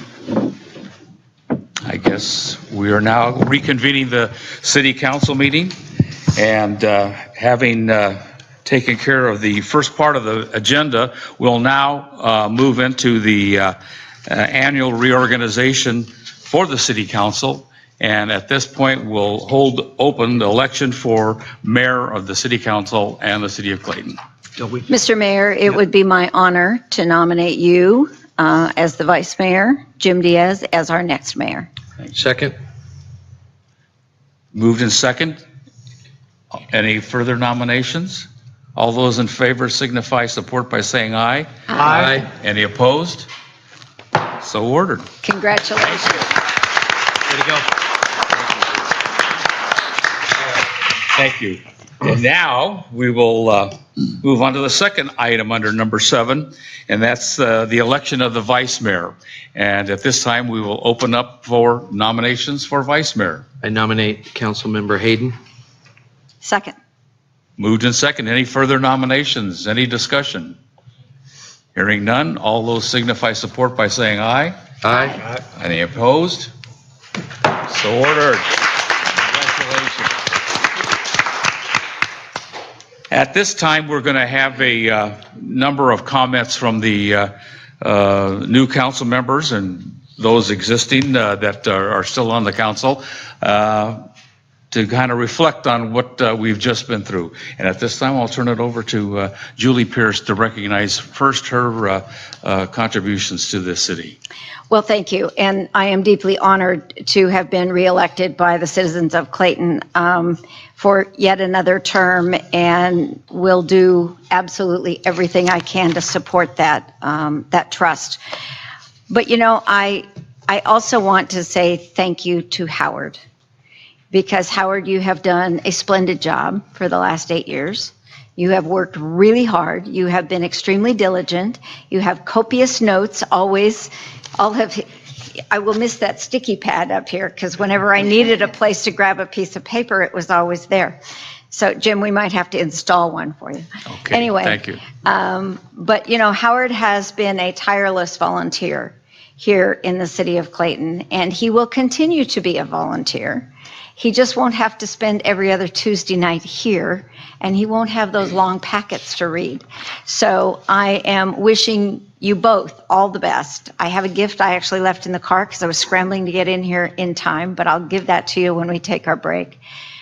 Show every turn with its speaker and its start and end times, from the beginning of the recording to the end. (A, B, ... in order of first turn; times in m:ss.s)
0:01.8-0:05.8 A
0:06.3-0:24.2 A
0:24.6-0:24.8 B
0:24.9-0:31.7 C
0:32.1-0:32.5 B
0:34.5-0:35.4 A
0:36.7-0:43.3 A
0:41.7-0:42.3 B
0:44.4-0:45.1 A
0:45.2-0:46.3 C
0:47.3-0:47.6 B
0:51.1-1:03.4 A
1:03.6-1:05.4 B
1:06.4-1:06.8 C
1:07.6-1:10.6 A
1:11.7-1:14.6 A
1:14.8-1:15.3 B
1:15.5-1:16.5 A
1:17.6-1:18.5 A
1:19.5-1:19.8 B
1:23.1-1:34.0 A
1:34.7-1:44.2 A
1:44.7-1:58.2 C
1:59.1-2:03.2 C
2:04.1-2:14.8 C
2:15.5-2:21.0 C
2:21.5-2:49.6 C
2:23.9-2:24.8 A